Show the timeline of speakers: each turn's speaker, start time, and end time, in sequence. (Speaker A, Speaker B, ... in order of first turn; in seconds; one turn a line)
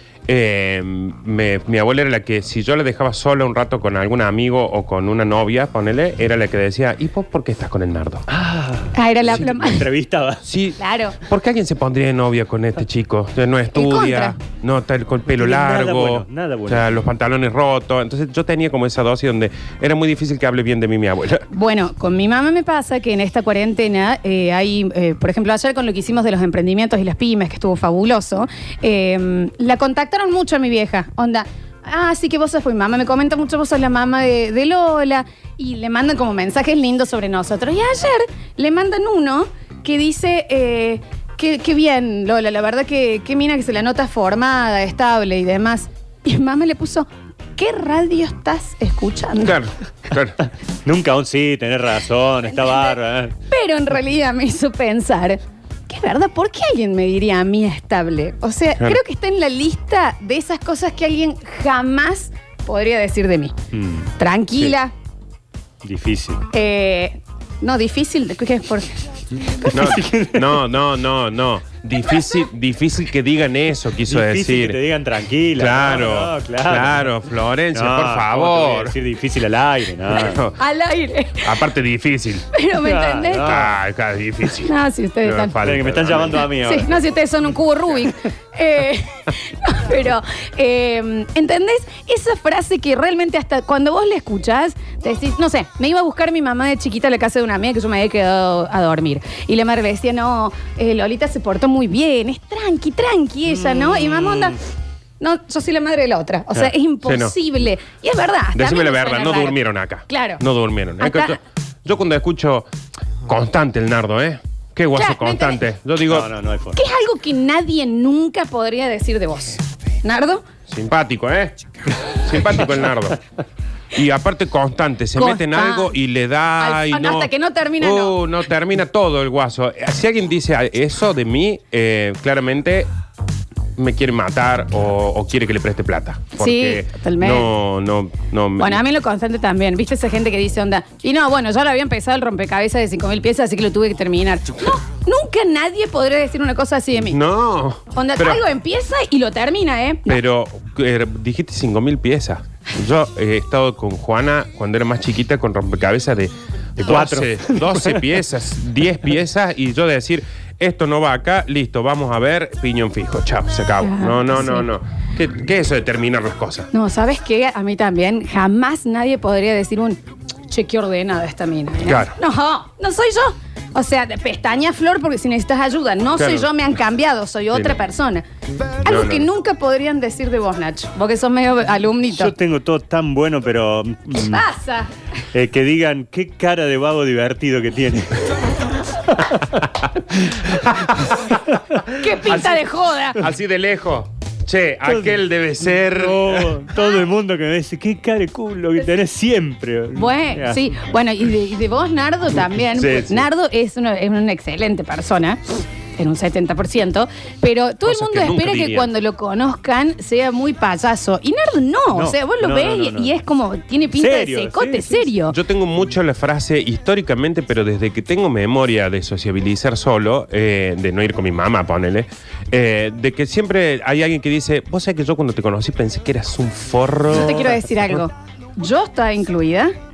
Speaker A: 0.3-8.2
Speaker B: 8.3-10.4
Speaker C: 8.9-9.9
Speaker A: 10.4-21.4
Speaker C: 10.8-11.2
Speaker C: 13.7-14.4
Speaker B: 15.4-17.0
Speaker C: 21.5-49.6
Speaker A: 49.4-50.4
Speaker B: 50.8-53.3
Speaker C: 52.5-63.6
Speaker B: 63.7-64.1
Speaker C: 64.2-64.9
Speaker B: 65.8-66.5
Speaker C: 66.5-69.7
Speaker B: 69.7-70.5
Speaker A: 69.7-74.8
Speaker C: 72.2-72.4
Speaker B: 74.1-77.1
Speaker A: 75.5-79.0
Speaker B: 77.7-80.4
Speaker A: 80.1-80.6
Speaker C: 80.3-81.6
Speaker A: 81.4-82.5
Speaker C: 82.5-83.7
Speaker B: 82.8-83.8
Speaker A: 83.4-86.5
Speaker C: 84.6-85.6
Speaker B: 85.6-87.0
Speaker C: 86.5-104.6
Speaker B: 103.5-104.5
Speaker C: 105.2-110.4
Speaker A: 107.1-107.4
Speaker A: 108.5-112.7
Speaker C: 111.0-111.4
Speaker A: 113.3-116.3
Speaker C: 114.9-115.6
Speaker B: 116.1-116.8
Speaker C: 116.8-120.4
Speaker A: 120.7-121.5
Speaker A: 122.1-123.2
Speaker A: 123.9-127.3
Speaker C: 125.2-126.0
Speaker C: 126.6-128.2
Speaker A: 127.8-132.9
Speaker A: 133.8-138.8
Speaker C: 136.4-137.5
Speaker C: 138.6-147.2
Speaker A: 147.0-148.4
Speaker C: 147.9-150.2
Speaker A: 150.1-166.7
Speaker B: 156.8-158.1
Speaker C: 163.8-164.7
Speaker C: 166.7-178.3
Speaker A: 171.9-172.2
Speaker A: 176.2-176.5
Speaker C: 178.8-182.3
Speaker A: 178.8-179.3
Speaker B: 182.1-184.5
Speaker C: 184.2-184.9
Speaker B: 185.3-190.7
Speaker A: 190.7-191.1
Speaker B: 191.3-191.6
Speaker C: 191.9-193.2
Speaker A: 192.1-196.6
Speaker B: 194.9-195.2
Speaker B: 195.8-200.7
Speaker C: 199.9-215.4
Speaker A: 202.8-203.3
Speaker A: 207.8-208.9
Speaker B: 211.9-213.2
Speaker B: 213.9-215.1
Speaker A: 215.3-227.8
Speaker C: 227.1-229.7